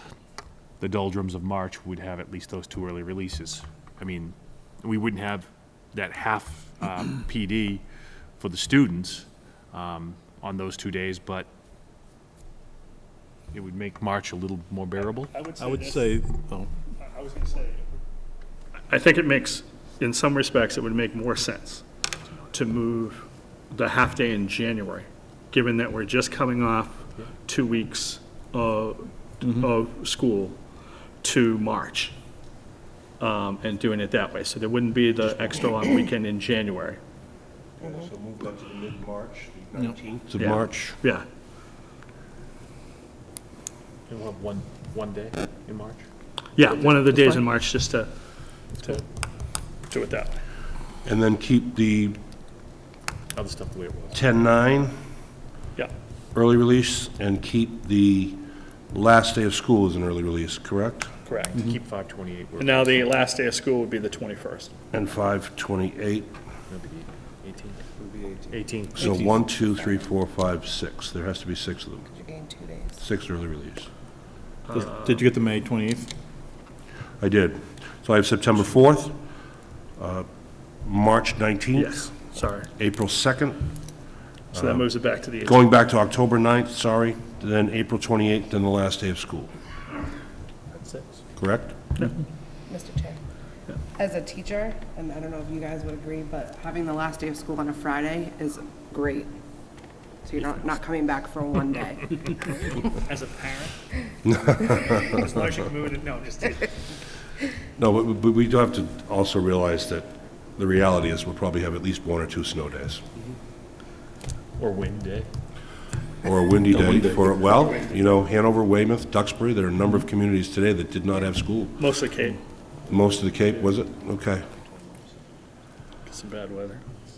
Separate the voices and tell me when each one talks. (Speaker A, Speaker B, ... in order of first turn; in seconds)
Speaker A: 0.8-7.8, 8.4-11.5, 13.5-15.3, 44.1-46.0, 53.3-54.2, 61.3-63.1, 66.7-67.8, 68.5-69.2, 114.6-115.3, 116.7-117.1
Speaker B: 15.0-16.1, 17.0-17.9, 18.9-21.8, 22.5-30.6, 31.2-32.1, 33.2-37.0, 40.4-41.3, 46.5-48.1, 48.7-49.0, 49.9-50.4, 61.3-61.6, 62.6-64.7, 74.6-75.2, 81.8-82.7, 84.5-85.6, 102.8-103.8, 104.6-106.8, 121.8-122.4, 126.1-126.8
Speaker C: 15.6-16.7, 74.7-76.1
Speaker D: 37.8-41.0, 51.0-52.2, 54.1-55.0, 56.3-61.1, 64.9-66.3, 68.9-72.1, 73.0-73.9, 77.2-79.2, 80.0-80.3, 80.8-82.1, 82.8-83.7, 84.5-89.5, 91.4-91.8, 104.2-105.2, 107.8-113.0, 116.2-121.9, 122.9-124.5
Speaker E: 68.0-70.0, 72.1-73.0, 92.7-93.2, 93.9-99.3, 100.2-102.5